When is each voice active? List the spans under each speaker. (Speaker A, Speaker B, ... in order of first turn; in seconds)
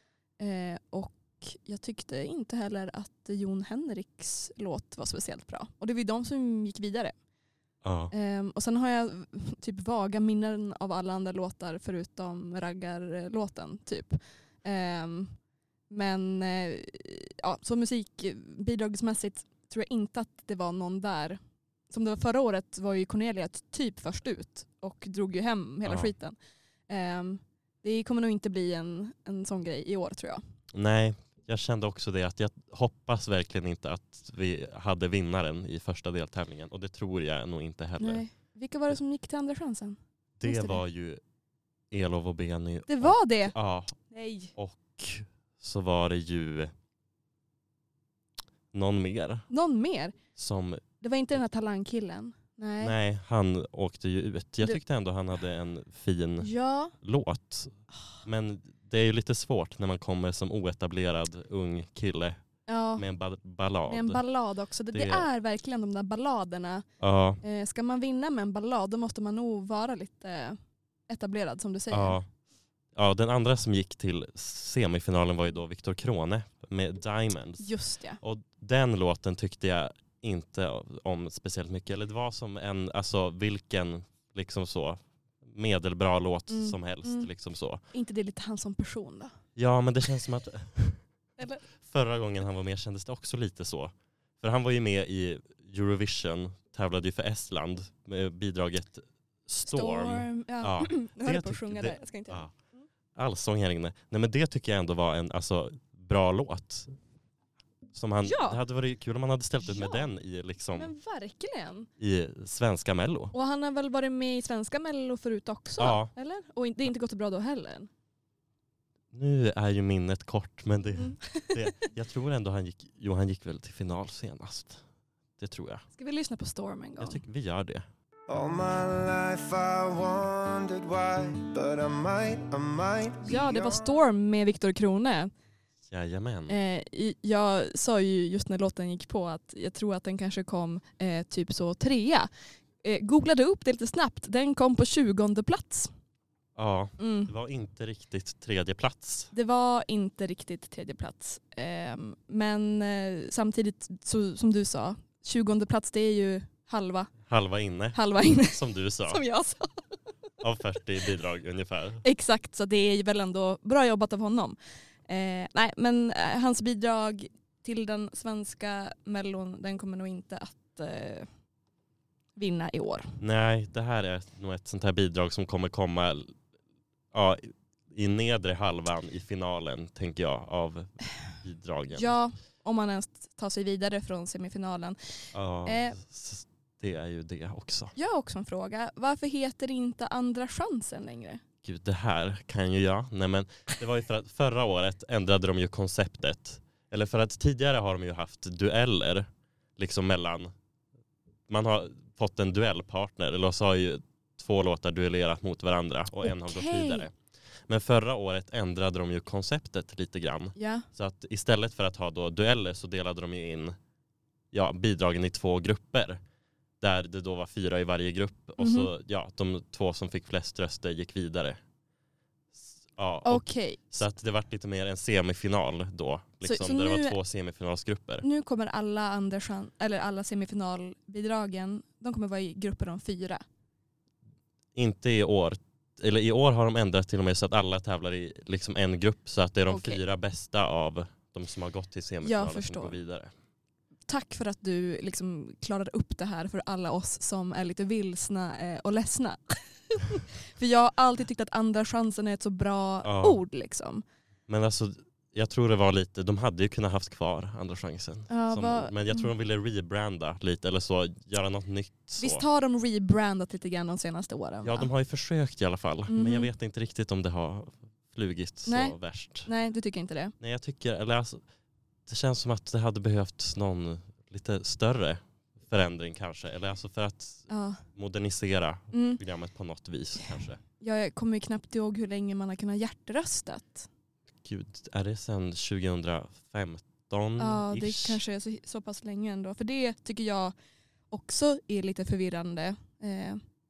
Speaker A: 0.4-7.1, 8.1-15.3, 15.9-21.4, 21.9-26.3, 26.9-30.4, 38.0-40.8, 42.9-43.5, 44.1-44.5, 49.5-50.1, 51.0-52.9, 56.4-56.9, 62.7-63.0, 63.9-66.8, 67.4-72.2, 77.6-78.2, 86.5-87.3, 87.9-89.3, 99.6-102.8, 108.2-108.6, 109.7-110.0, 110.8-111.9, 113.3-117.9, 121.0-121.9, 125.9-127.2, 133.2-135.3, 136.5-142.3, 142.8-145.9, 147.0-147.3, 149.3-157.1, 157.9-159.8, 162.0-171.3, 172.3-173.2, 181.9-186.0, 187.9-191.4, 206.2-207.1, 210.6-210.9, 218.6-218.9, 223.2-223.8, 226.4-227.2, 228.2-233.4, 239.7-240.0, 242.2-243.0, 244.1-254.0, 258.3-259.3, 262.2-264.9, 266.1-266.5, 268.6-270.3, 277.5-277.8, 278.9-279.2, 280.8-283.9, 287.4-290.5, 291.1-293.4
Speaker B: 7.8-8.1, 25.8-26.1, 30.7-38.2, 40.4-41.2, 41.9-44.0, 44.5-46.7, 48.7-49.5, 50.4-50.8, 52.8-62.4, 63.0-64.2, 64.9-65.2, 67.0-67.4, 71.9-72.2, 72.9-77.7, 78.2-87.8, 89.5-91.0, 91.8-102.5, 103.1-106.9, 107.9-110.9, 112.0-113.3, 115.8-116.1, 119.1-124.8, 125.4-125.8, 127.0-127.8, 135.9-136.6, 146.6-149.3, 157.3-159.2, 160.4-162.0, 173.2-176.3, 177.1-182.1, 185.3-187.9, 191.6-200.5, 201.5-207.1, 207.7-213.8, 214.5-216.2, 216.8-221.6, 222.5-228.2, 234.8-243.3, 253.0-253.4, 254.5-262.4, 264.6-269.5, 270.4-271.4, 272.1-280.6, 284.4-288.2
Speaker C: 128.3-133.9